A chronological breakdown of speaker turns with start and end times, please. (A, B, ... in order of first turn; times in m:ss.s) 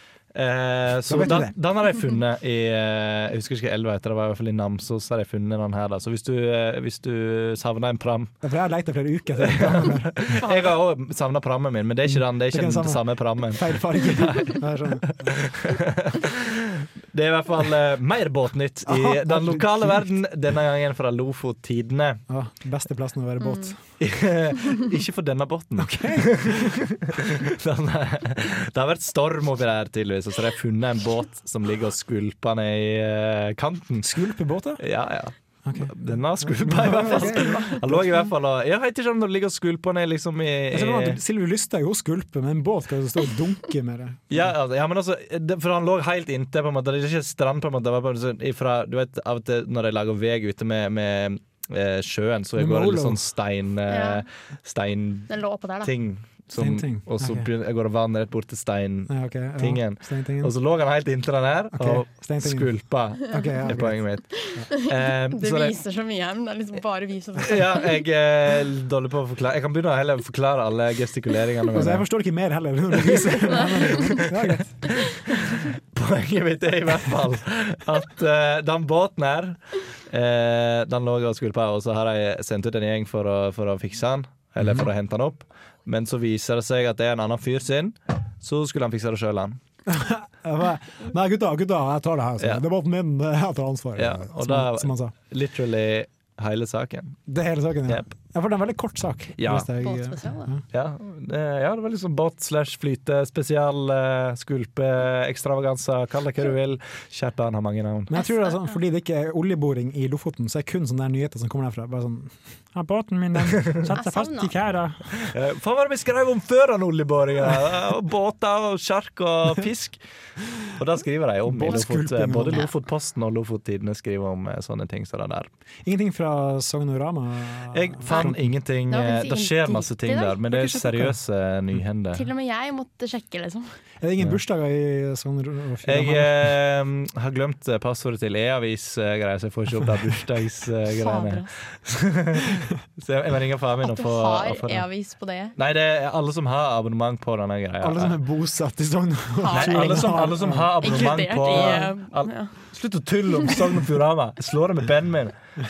0:00.3-0:08.3 A
0:01.0-0:01.5 B
0:08.4-0:10.4 B
0:09.4-0:22.2 A
0:10.4-0:10.7 C
0:12.1-0:15.5 B
0:18.8-0:20.1 B
0:22.3-0:23.8 B
0:23.4-0:23.7 C
0:24.0-0:34.2 A
0:25.8-0:26.9 B
0:34.0-0:34.8 B
0:34.8-0:41.2 A
0:35.6-0:38.2 B
0:37.1-0:37.8 C
0:40.7-0:44.4 B
0:44.3-1:05.8 A
0:52.6-0:53.2 B
0:53.9-0:54.2 C
0:55.3-0:55.9 C
0:56.6-0:57.5 B
0:59.1-1:00.5 B
1:01.7-1:04.0 B
1:04.4-1:08.0 C
1:07.4-1:12.0 A
1:11.7-1:14.9 B
1:13.5-1:14.2 C
1:14.0-1:29.6 A
1:24.6-1:24.9 B
1:29.9-1:35.1 B
1:34.0-1:37.2 A
1:37.3-1:40.6 B
1:39.4-1:39.7 A
1:39.8-1:40.5 C
1:40.7-1:48.1 A
1:48.1-1:55.3 B
1:48.1-1:48.8 C
1:53.6-1:53.8 A
1:53.8-1:54.5 C
1:55.2-2:00.0 A
2:00.6-2:05.5 A
2:01.4-2:02.7 B
2:05.8-2:08.4 B
2:07.7-2:12.3 A
2:08.1-2:08.3 C
2:08.9-2:10.4 C
2:10.5-2:11.2 B
2:12.1-2:13.7 C
2:14.0-2:16.5 B
2:15.8-2:24.9 A
2:21.0-2:21.5 C
2:23.8-2:25.5 C
2:25.6-2:28.2 A
2:27.8-2:31.9 B
2:29.4-2:32.5 C
2:29.5-2:35.4 A